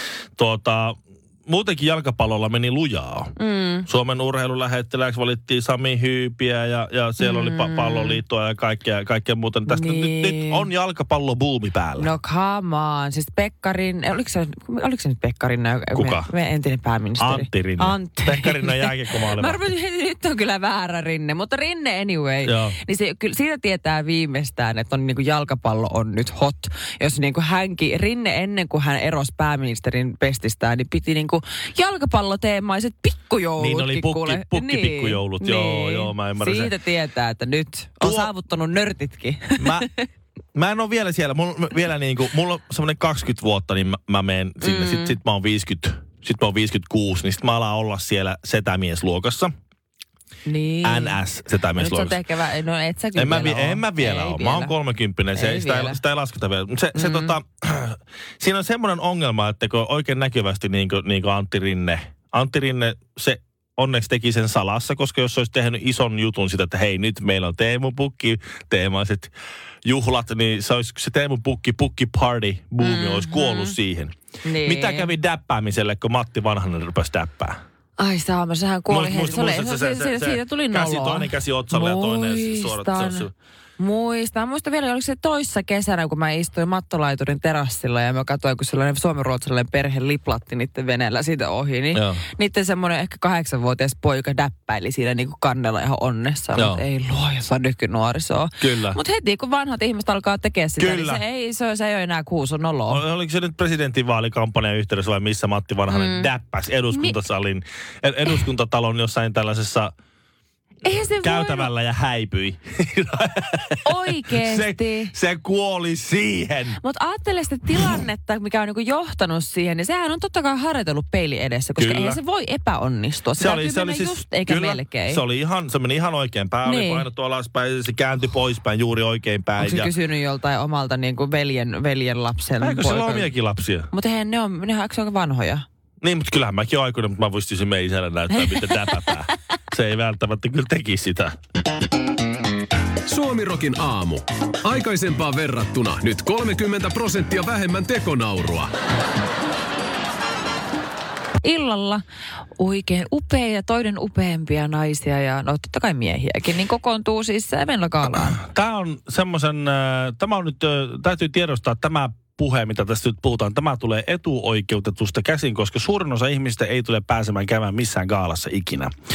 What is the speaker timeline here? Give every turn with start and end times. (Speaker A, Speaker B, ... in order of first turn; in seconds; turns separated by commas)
Speaker A: 0.4-3.3, Speaker B: 3.4-3.9, Speaker A: 3.9-12.1, Speaker B: 7.2-8.2, Speaker B: 9.7-10.7, Speaker B: 12.0-40.0, Speaker A: 15.9-16.3, Speaker A: 17.2-19.6, Speaker A: 22.4-22.8, Speaker A: 33.6-36.7, Speaker A: 38.0-38.3, Speaker A: 39.6-39.9, Speaker A: 40.5-49.5, Speaker B: 44.6-45.2, Speaker B: 50.5-51.2, Speaker A: 50.8-52.2, Speaker B: 51.8-54.7, Speaker A: 53.2-69.3, Speaker B: 55.3-56.0, Speaker B: 57.0-57.4, Speaker A: 69.8-77.6, Speaker B: 72.8-73.8, Speaker B: 74.4-75.1, Speaker B: 78.0-103.0, Speaker A: 78.9-83.3, Speaker A: 91.9-92.2, Speaker A: 96.5-96.8, Speaker A: 98.6-99.0, Speaker A: 100.8-101.2, Speaker A: 102.9-109.9, Speaker B: 105.9-106.3, Speaker B: 106.9-107.2, Speaker B: 110.8-111.7, Speaker A: 111.2-116.8, Speaker B: 113.8-115.1, Speaker B: 116.8-125.2, Speaker A: 121.8-122.2, Speaker A: 123.4-129.9, Speaker B: 126.7-127.1, Speaker B: 129.6-133.3, Speaker A: 132.6-133.9, Speaker B: 133.9-135.7, Speaker A: 136.0-141.4, Speaker C: 143.1-148.7, Speaker B: 151.4-152.0, Speaker B: 152.6-158.4, Speaker A: 158.4-168.9